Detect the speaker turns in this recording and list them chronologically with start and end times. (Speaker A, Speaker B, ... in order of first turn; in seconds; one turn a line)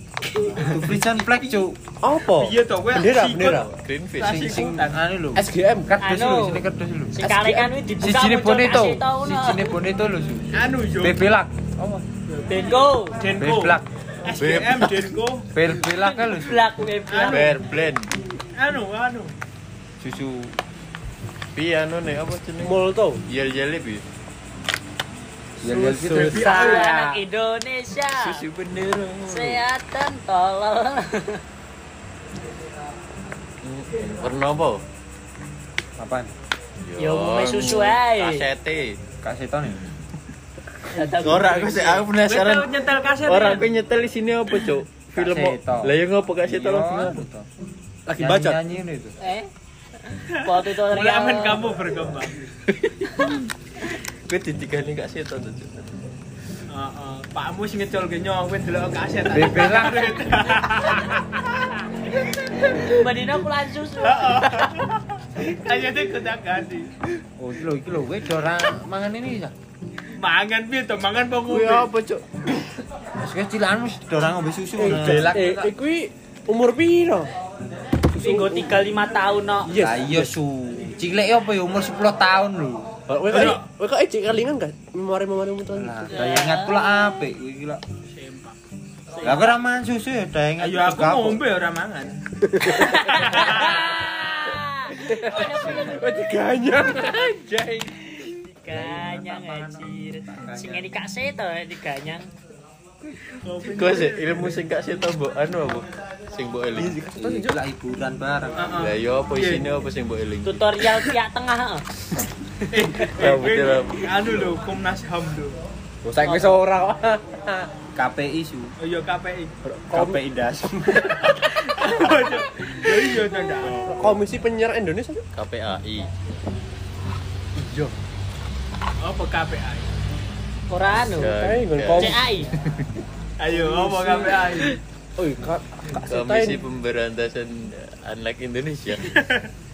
Speaker A: 0.6-1.8
Speaker B: 1.3-1.6
Speaker C: 2.0-3.7
Speaker B: 2.2-5.0
Speaker D: 3.7-4.6
Speaker A: 4.2-7.1
Speaker C: 5.3-5.9
Speaker E: 6.0-9.7
Speaker C: 7.2-7.7
Speaker A: 8.0-12.0
Speaker B: 10.5-11.2
Speaker B: 12.3-15.5
Speaker E: 12.5-13.2
Speaker A: 13.4-13.9
Speaker D: 14.3-15.1
Speaker A: 15.5-16.6
Speaker E: 15.8-17.5
Speaker B: 17.1-17.6
Speaker D: 17.3-18.1
Speaker B: 18.5-19.4
Speaker A: 20.0-20.6
Speaker D: 21.5-24.0
Speaker C: 22.6-23.2
Speaker A: 25.6-27.2
Speaker C: 25.6-26.3
Speaker B: 26.1-26.9
Speaker E: 26.2-28.4
Speaker D: 28.1-29.6
Speaker E: 29.2-31.4
Speaker D: 33.6-34.8
Speaker A: 36.0-36.3
Speaker D: 36.8-39.0
Speaker E: 37.0-38.5
Speaker A: 39.2-39.8
Speaker E: 40.9-42.1
Speaker D: 41.2-42.7
Speaker B: 42.2-43.7
Speaker D: 43.2-47.2
Speaker A: 45.1-47.5
Speaker C: 48.1-48.6
Speaker A: 48.1-49.1
Speaker E: 49.2-49.5
Speaker E: 50.1-51.6
Speaker B: 50.3-52.5
Speaker D: 52.7-53.4
Speaker D: 54.3-55.7
Speaker B: 56.7-62.8
Speaker A: 59.3-60.1
Speaker E: 62.7-64.6
Speaker B: 64.0-66.9
Speaker A: 67.4-69.5
Speaker B: 70.1-71.9
Speaker D: 71.5-72.5
Speaker A: 73.2-75.4
Speaker C: 74.8-77.3
Speaker D: 74.8-75.7
Speaker C: 78.1-78.7
Speaker E: 78.2-79.8
Speaker C: 79.7-80.3
Speaker A: 79.7-82.9
Speaker C: 83.1-86.2
Speaker B: 83.3-83.6
Speaker A: 85.7-87.8
Speaker E: 86.1-87.2
Speaker B: 88.0-88.6
Speaker E: 89.1-89.5
Speaker A: 89.2-91.4
Speaker B: 90.6-92.2
Speaker C: 92.4-93.1
Speaker E: 92.6-96.1
Speaker B: 93.1-94.0
Speaker C: 94.9-97.9
Speaker E: 98.2-102.3
Speaker A: 98.7-100.9
Speaker B: 103.3-104.6
Speaker D: 103.7-107.0
Speaker A: 106.8-108.7
Speaker C: 106.8-107.6
Speaker B: 108.5-109.7
Speaker D: 108.7-111.1
Speaker E: 110.4-111.8
Speaker B: 112.7-115.6
Speaker D: 113.1-114.6
Speaker C: 116.0-117.7
Speaker E: 116.2-116.5
Speaker A: 117.9-118.7
Speaker B: 118.8-119.5
Speaker C: 119.6-120.3
Speaker A: 119.9-121.1
Speaker B: 121.0-123.9
Speaker C: 123.8-125.2
Speaker D: 125.3-126.1
Speaker C: 127.5-128.0
Speaker B: 129.0-129.9
Speaker E: 130.7-131.3
Speaker D: 130.9-132.2
Speaker C: 131.3-132.3
Speaker E: 131.9-132.5
Speaker B: 133.4-134.8
Speaker C: 133.5-134.4
Speaker C: 135.2-136.6
Speaker D: 135.9-139.1
Speaker B: 139.1-139.5